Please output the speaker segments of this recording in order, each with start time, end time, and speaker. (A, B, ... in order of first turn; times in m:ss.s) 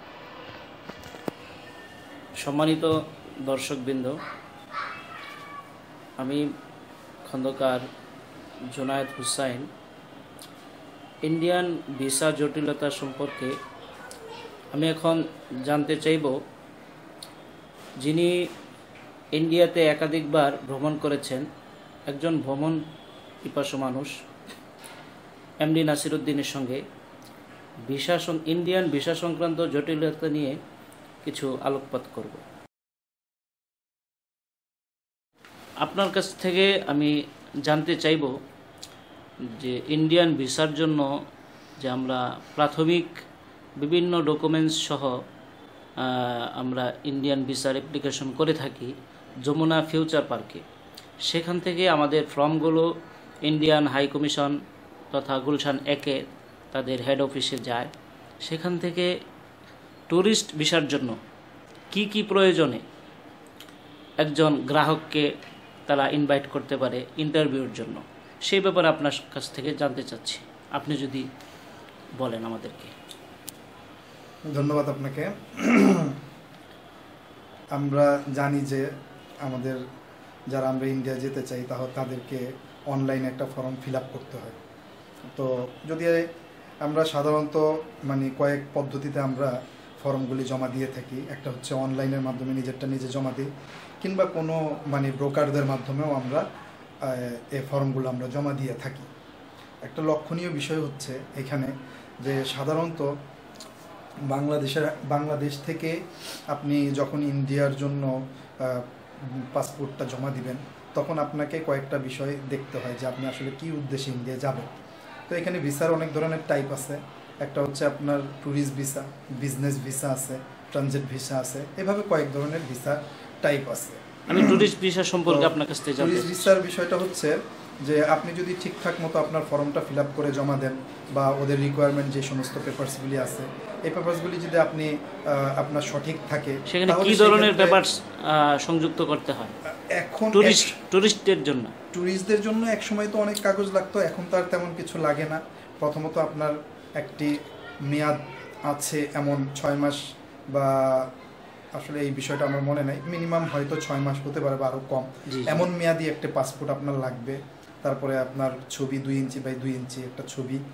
0:02.4-0:04.2 A
0:06.2-0:06.4 A
0:07.3-0:07.9 A
0:08.7-0:09.7 A
0:11.3-0:13.5 A
0:14.7-0:16.4 A
0:18.0-0:18.4 A
0:19.4-0:21.4 A
0:22.1-0:22.8 A
0:23.4-0:24.1 A
0:25.6-0:26.8 A
0:27.9-0:30.6 A
0:31.2-0:32.4 A
0:35.8-0:37.1 A
0:37.7-0:38.3 A
0:39.5-0:41.1 A
0:41.8-0:43.1 A
0:43.8-0:45.2 A
0:46.0-0:50.6 A
0:51.3-0:52.9 A
0:53.5-0:54.6 A
0:55.1-0:57.9 A
0:58.4-0:59.1 A
1:00.1-1:01.2 A
1:01.9-1:02.8 A
1:04.2-1:05.3 A
1:05.9-1:11.3 A
1:12.2-1:12.9 A
1:14.5-1:16.2 B
1:17.8-1:18.9 B
1:19.4-1:19.8 B
1:20.5-1:24.6 B
1:25.3-1:26.3 B
1:26.9-1:33.5 B
1:34.0-1:36.4 B
1:37.0-1:39.1 B
1:39.8-1:43.1 B
1:44.3-1:46.0 B
1:46.5-1:54.7 B
1:55.3-2:04.7 B
2:04.3-2:06.5 A
2:05.3-2:17.8 B
2:16.7-2:19.5 A
2:19.9-2:20.8 B
2:20.3-2:21.7 A
2:21.9-2:30.0 B
2:30.5-2:31.1 B
2:31.8-2:40.6 B
2:35.3-2:35.7 A